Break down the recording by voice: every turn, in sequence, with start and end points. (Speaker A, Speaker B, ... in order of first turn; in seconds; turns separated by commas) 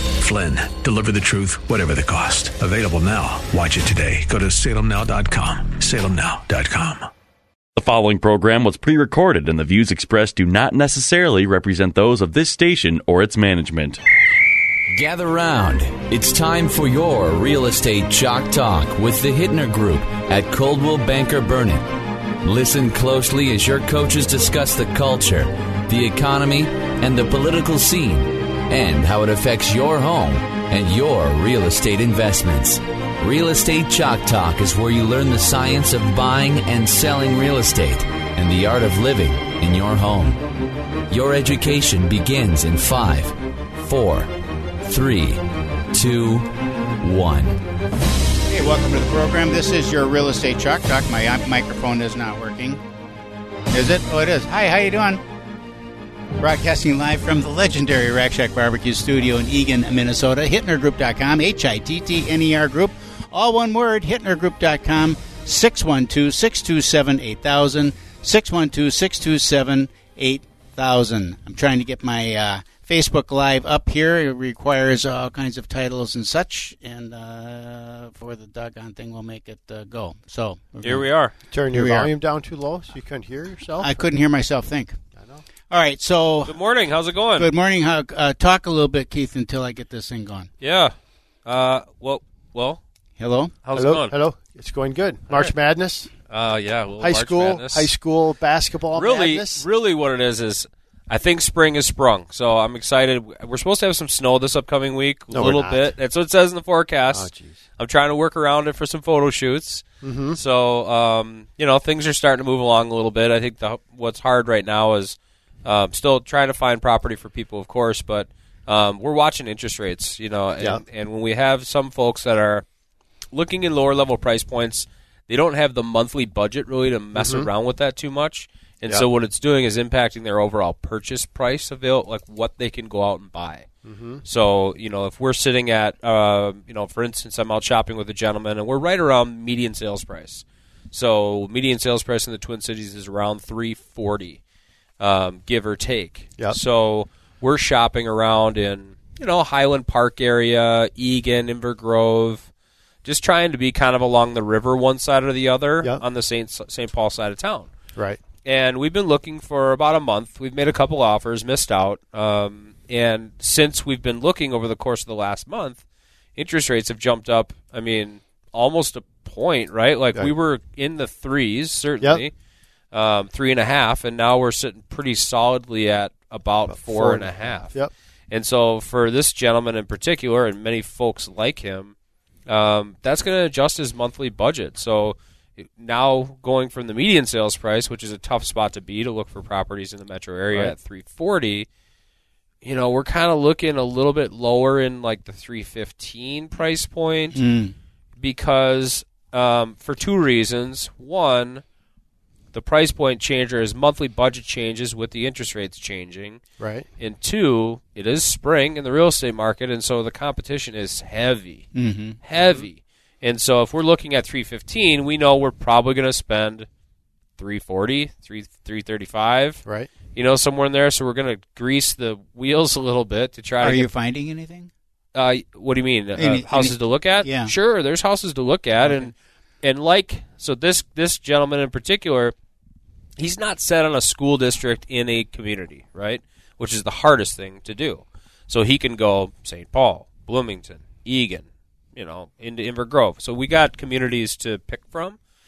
Speaker A: 0.2-7.1, Speaker B: 7.8-14.0, Speaker C: 14.9-21.8, Speaker C: 22.4-40.4, Speaker C: 41.1-44.3, Speaker C: 44.8-45.4, Speaker C: 45.9-46.5, Speaker C: 47.0-47.6, Speaker D: 48.5-52.8, Speaker D: 53.7-55.2, Speaker D: 56.4-81.0, Speaker E: 80.8-81.3, Speaker F: 81.5-83.9, Speaker D: 81.7-82.1, Speaker D: 83.8-85.0, Speaker F: 85.2-85.4, Speaker D: 85.7-86.6, Speaker E: 86.5-87.5, Speaker D: 87.3-90.5, Speaker E: 90.6-90.9, Speaker E: 91.5-92.8, Speaker D: 93.2-93.5, Speaker E: 93.6-94.2, Speaker F: 93.7-96.1, Speaker E: 96.3-97.9, Speaker F: 97.0-99.6, Speaker E: 98.9-122.6, Speaker F: 105.3-105.9, Speaker F: 107.1-107.6, Speaker F: 110.0-110.4, Speaker E: 123.3-133.7, Speaker F: 127.1-127.5, Speaker F: 133.8-134.2, Speaker E: 134.2-144.4, Speaker E: 145.0-152.5, Speaker E: 153.0-157.7, Speaker F: 157.9-158.2, Speaker E: 158.4-165.8, Speaker E: 166.4-172.3, Speaker F: 172.0-172.2, Speaker E: 172.9-177.8, Speaker F: 176.7-177.9, Speaker E: 178.3-181.9, Speaker E: 182.5-191.7, Speaker E: 192.6-197.4, Speaker D: 197.3-197.7, Speaker E: 198.2-201.6, Speaker E: 202.5-206.4, Speaker F: 206.6-206.9, Speaker E: 207.0-211.7, Speaker D: 211.7-212.2, Speaker E: 212.2-216.7, Speaker F: 212.4-212.6, Speaker E: 217.4-219.6, Speaker E: 220.1-223.9, Speaker D: 223.6-224.7, Speaker E: 225.1-232.3, Speaker D: 226.2-227.5, Speaker E: 233.2-245.2